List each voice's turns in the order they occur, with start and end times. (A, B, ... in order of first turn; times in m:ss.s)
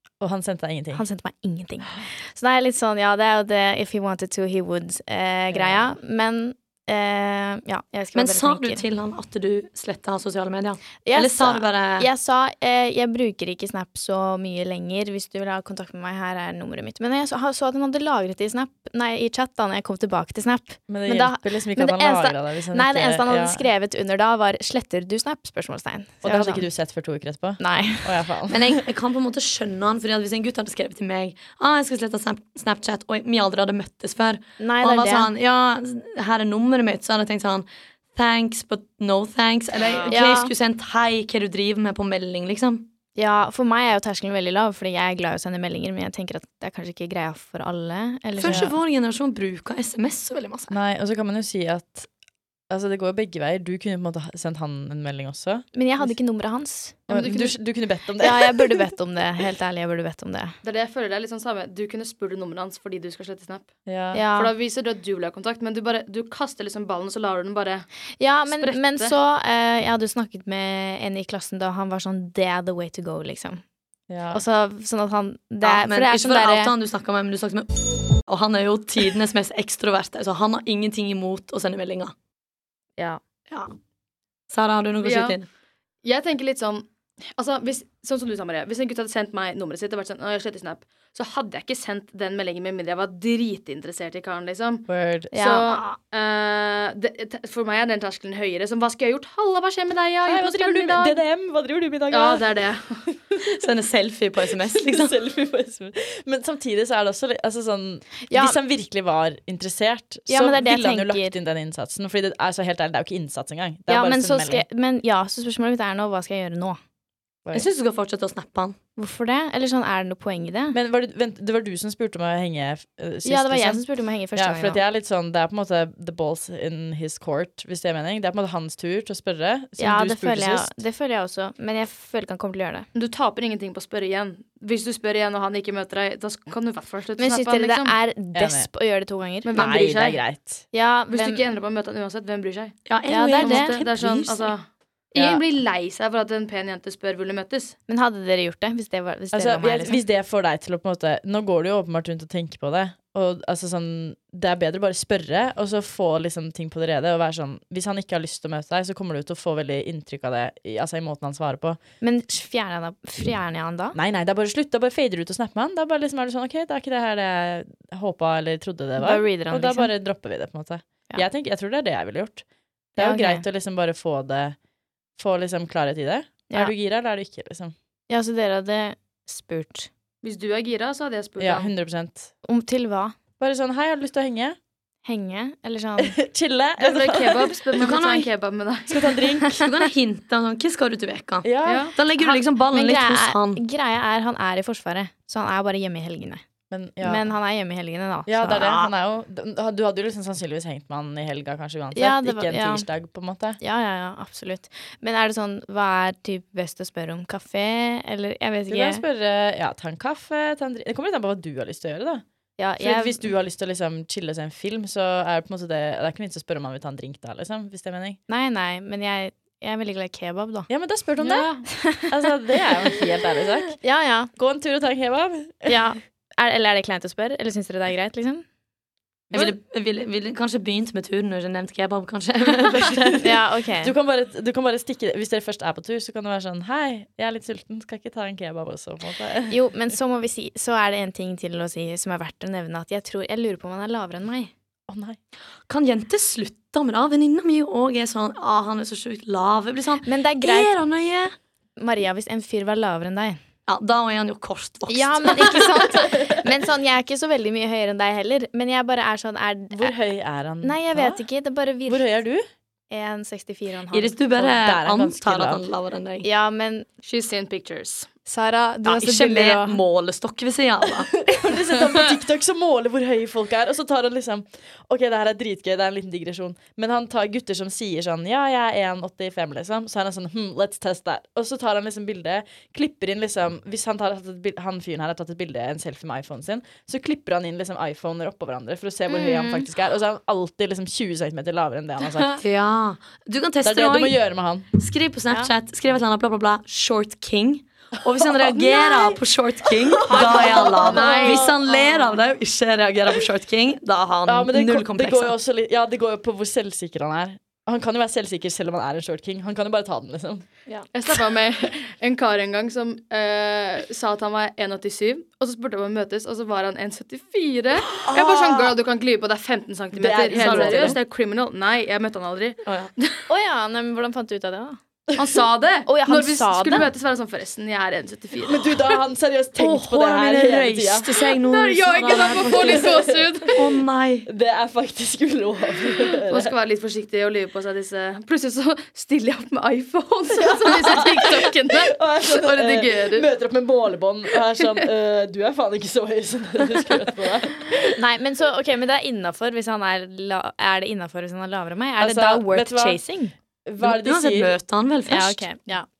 0:00.2-0:01.0 A
0:00.9-0:08.8 B
0:05.5-0:06.0 A
0:08.1-0:12.1 C
0:11.0-0:26.6 B
0:20.9-0:23.7 A
0:26.2-0:28.8 A
0:27.6-0:28.1 B
0:28.5-0:42.9 C
0:34.6-0:35.3 B
0:39.8-0:40.1 D
0:40.1-0:40.5 B
0:43.2-0:48.7 B
0:48.4-0:50.7 C
0:48.4-0:48.7 A
0:50.7-0:52.1 A
0:52.7-0:56.0 A
0:55.7-0:57.3 B
0:57.1-0:58.8 A
0:57.1-0:57.5 D
0:58.2-1:00.5 B
1:00.6-1:03.8 D
1:03.8-1:04.2 A
1:04.1-1:04.5 B
1:04.3-1:07.8 D
1:08.2-1:13.6 B
1:08.5-1:09.1 D
1:14.1-1:14.4 A
1:14.3-1:16.7 B
1:15.6-1:17.7 C
1:18.2-1:22.1 C
1:24.5-1:25.5 C
1:25.0-1:25.4 D
1:26.0-1:41.2 D
1:34.9-1:35.3 A
1:35.3-1:35.8 B
1:40.2-1:42.5 A
1:42.1-1:43.0 D
1:43.3-1:43.6 A
1:43.5-1:45.1 C
1:44.6-1:54.6 A
1:48.3-1:48.6 B
1:50.3-1:51.4 B
1:53.9-1:56.8 B
1:57.5-1:58.8 C
1:59.0-2:00.8 B
2:00.7-2:03.8 A
2:03.2-2:04.8 B
2:04.3-2:10.8 A
2:09.8-2:12.9 B
2:12.9-2:18.0 D
2:17.2-2:19.5 B
2:18.3-2:18.7 A
2:19.4-2:20.2 D
2:19.5-2:20.6 A
2:20.7-2:21.4 B
2:21.1-2:27.8 D
2:22.9-2:24.5 C
2:23.1-2:23.8 B
2:25.1-2:25.4 A
2:27.9-2:30.0 B
2:29.3-2:41.8 A
2:42.0-2:44.0 B
2:43.9-2:52.4 A
2:49.0-2:49.9 B
2:53.0-2:54.6 A
2:53.0-2:53.4 B
2:55.2-2:57.7 A
2:58.1-2:59.9 B
3:00.2-3:01.7 D
3:01.4-3:02.3 A
3:02.4-3:03.1 B
3:03.4-3:04.6 A
3:05.0-3:06.2 B
3:06.0-3:08.0 A
3:06.8-3:09.2 D
3:07.8-3:08.3 C
3:08.9-3:09.6 A
3:09.5-3:13.6 C
3:11.4-3:11.9 A
3:11.6-3:12.0 D
3:12.2-3:16.4 B
3:16.7-3:17.2 A
3:17.0-3:18.9 B
3:18.3-3:23.6 A
3:21.9-3:22.9 B
3:23.6-3:29.0 B
3:28.7-3:32.2 A
3:32.6-3:33.3 B
3:32.8-3:38.2 A
3:38.3-3:40.7 B
3:40.7-3:43.8 A
3:41.2-3:41.6 D
3:41.7-3:42.1 B
3:43.8-3:44.3 B
3:44.4-3:45.8 A
3:45.7-3:48.4 B
3:49.3-3:53.3 C
3:53.2-3:53.9 B
3:53.8-3:59.6 A
3:59.5-4:04.5 B
4:04.9-4:05.2 A
4:05.7-4:11.3 C
4:10.0-4:10.8 B
4:11.8-4:13.4 B
4:13.7-4:15.9 C
4:14.9-4:19.9 B
4:19.7-4:21.2 A
4:20.6-4:22.1 B
4:21.9-4:22.4 A
4:22.9-4:24.2 B
4:23.9-4:26.3 C
4:24.4-4:25.6 A
4:26.2-4:26.9 B
4:27.0-4:28.1 D
4:28.2-4:29.8 B
4:28.8-4:31.1 C
4:31.2-4:52.4 A
4:49.1-4:49.7 B
4:52.1-4:54.2 C
4:53.6-4:54.7 A
4:54.7-5:05.3 C
4:58.1-4:58.8 A
4:59.9-5:01.6 A
5:00.0-5:02.2 D
5:04.2-5:10.4 A
5:10.9-5:23.2 D
5:18.0-5:18.7 A
5:19.9-5:21.0 A
5:20.3-5:21.0 C
5:22.6-5:22.9 C
5:23.3-5:24.8 B
5:25.1-5:25.4 A
5:25.2-5:28.9 D
5:25.8-5:26.9 B
5:28.4-5:31.1 A
5:29.6-5:33.0 C
5:31.2-5:33.8 D
5:32.6-5:33.4 A
5:33.5-5:34.3 C
5:34.3-5:36.5 A
5:36.3-5:43.3 D
5:40.3-5:48.0 A
5:47.9-5:53.3 B
5:52.0-5:53.0 A
5:53.6-5:54.6 A
5:53.8-5:55.4 C
5:55.0-5:55.9 B